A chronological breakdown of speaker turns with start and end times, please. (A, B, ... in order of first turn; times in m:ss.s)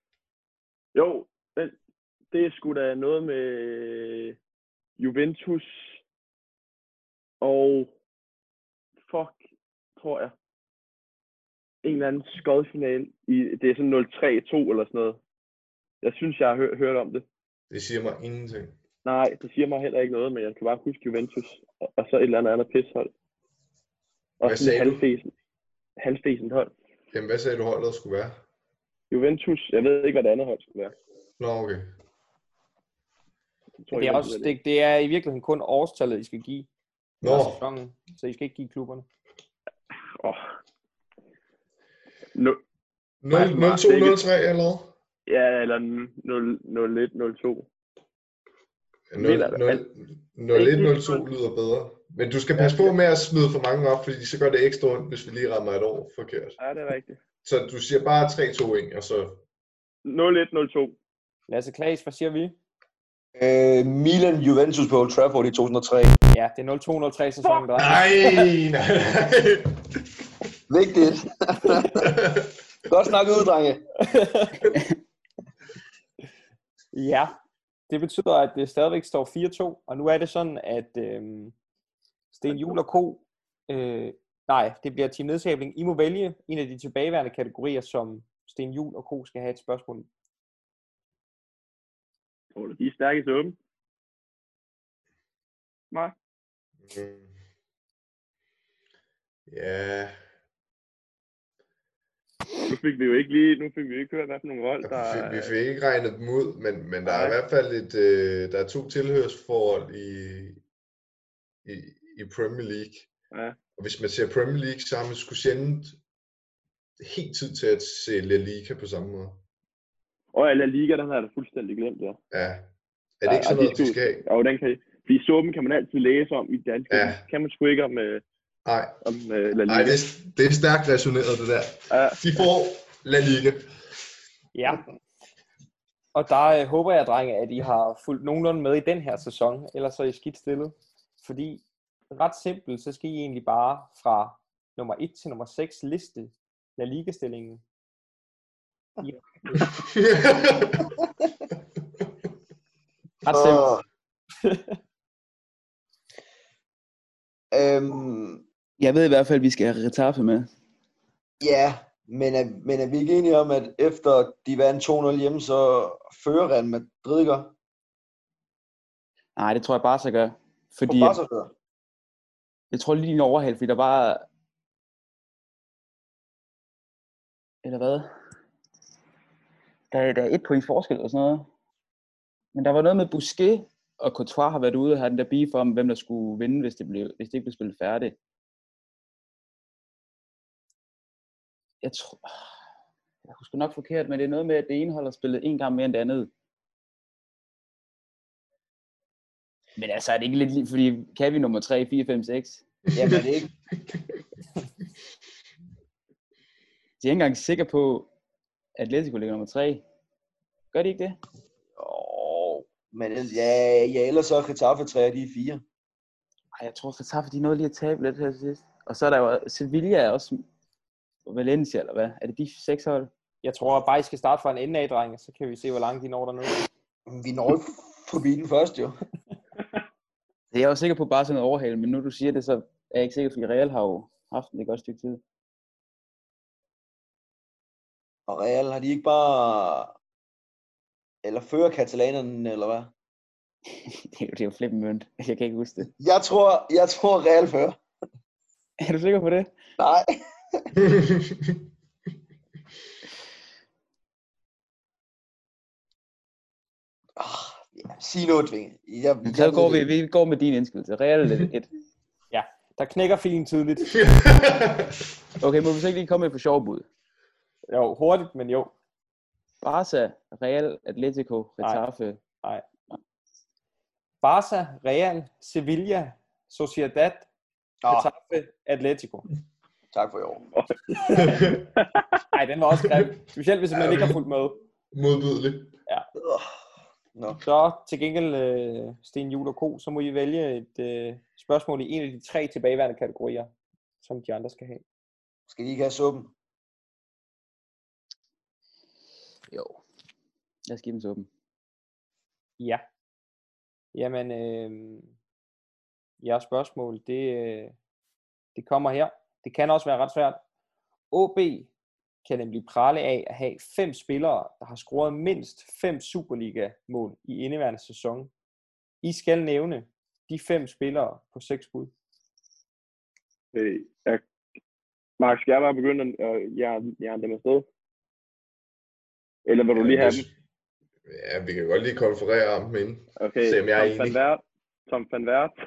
0:00.9-0:01.7 A
0:02.3-0:04.4 A
0:05.0-0:06.0 A
0:07.4-0:07.9 A
0:09.0-0:09.4 A
0:10.0-0:10.3 A
0:11.8-0:15.2 A
0:16.0-0:17.2 A
0:17.7-0:18.7 B
0:19.0-0:23.1 A
0:24.4-0:25.3 A
0:24.4-0:25.0 B
0:26.0-0:26.7 A
0:27.1-0:28.4 B
0:29.1-0:30.9 A
0:31.4-0:31.9 B
0:33.8-0:34.5 A
0:33.9-0:36.7 C
0:37.2-0:37.6 B
0:37.2-0:39.0 C
0:40.2-0:40.4 A
0:43.2-0:44.9 B
0:43.3-0:44.2 A
0:45.3-0:47.7 A
0:49.1-0:56.6 B
0:49.2-0:49.8 A
0:50.5-0:51.3 A
0:52.5-0:52.9 A
0:56.6-0:57.2 A
0:57.4-0:59.4 B
1:00.0-1:01.0 A
1:01.5-1:02.6 C
1:03.3-1:06.2 D
1:06.3-1:08.1 C
1:07.8-1:10.0 B
1:10.7-1:12.2 D
1:11.9-1:12.5 B
1:12.8-1:13.8 D
1:14.0-1:14.6 C
1:16.9-1:17.3 C
1:17.9-1:21.5 C
1:22.3-1:30.1 C
1:32.5-1:33.6 A
1:36.8-1:37.3 B
1:39.5-1:40.2 B
1:42.7-1:45.5 A
1:44.8-1:50.6 B
1:47.0-1:47.4 A
1:51.6-1:53.1 B
1:53.3-1:53.6 A
1:53.8-1:56.0 B
1:57.0-1:59.4 B
2:00.3-2:02.2 A
2:02.3-2:02.7 B
2:03.2-2:04.2 B
2:03.2-2:08.2 A
2:06.9-2:07.2 B
2:08.6-2:09.0 B
2:09.0-2:10.0 A
2:09.7-2:13.6 B
2:11.9-2:12.3 A
2:14.5-2:14.8 C
2:16.1-2:27.6 C
2:29.0-2:29.7 C
2:29.7-2:30.9 B
2:33.2-2:33.6 C
2:33.3-2:33.8 D
2:34.4-2:34.8 C
2:37.5-2:38.4 D
2:38.8-2:40.5 E
2:41.4-2:47.5 D
2:49.4-2:51.2 E
2:50.8-2:51.5 D
2:52.7-2:54.3 E
2:57.6-2:58.1 E
2:59.9-3:01.5 E
3:02.5-3:08.2 E
3:11.8-3:12.5 E
3:13.2-3:16.3 E
3:19.8-3:22.8 E
3:22.9-3:23.5 D
3:27.0-3:28.1 E
3:28.8-3:29.8 E
3:30.7-3:31.2 E
3:31.8-3:35.6 D
3:36.6-3:40.4 E
3:41.2-3:43.1 E
3:43.4-3:46.6 C
3:47.1-3:49.0 D
3:50.5-3:55.2 E
3:58.3-3:59.9 D
4:01.2-4:02.9 D
4:03.7-4:05.9 E
4:06.0-4:07.8 D
4:08.8-4:09.5 E
4:09.8-4:10.7 D
4:10.8-4:11.6 B
4:17.2-4:19.9 D
4:19.2-4:21.7 E
4:22.3-4:23.9 C
4:23.9-4:25.0 B
4:25.4-4:26.8 E
4:27.7-4:28.7 C
4:29.6-4:32.2 E
4:34.2-4:37.3 C
4:37.8-4:38.1 D
4:37.9-4:39.3 C
4:39.9-4:40.4 D
4:40.5-4:42.0 A
4:41.2-4:41.6 B
4:42.3-4:44.6 C
4:42.8-4:43.1 B
4:43.7-4:44.2 B
4:44.9-4:45.7 B
4:46.2-4:46.5 D
4:47.1-4:47.4 D
4:47.4-4:53.5 C
4:54.0-4:54.8 C
4:55.5-4:56.3 D
4:59.5-4:59.8 E
5:00.7-5:01.3 E
5:03.9-5:05.1 C
5:06.2-5:07.7 C
5:08.5-5:10.4 C
5:11.1-5:11.7 C
5:12.2-5:18.3 C
5:19.0-5:21.9 C
5:23.5-5:24.2 A
5:25.2-5:27.6 A
5:29.4-5:30.2 A
5:29.8-5:30.3 B
5:31.0-5:34.2 B
5:33.2-5:35.5 A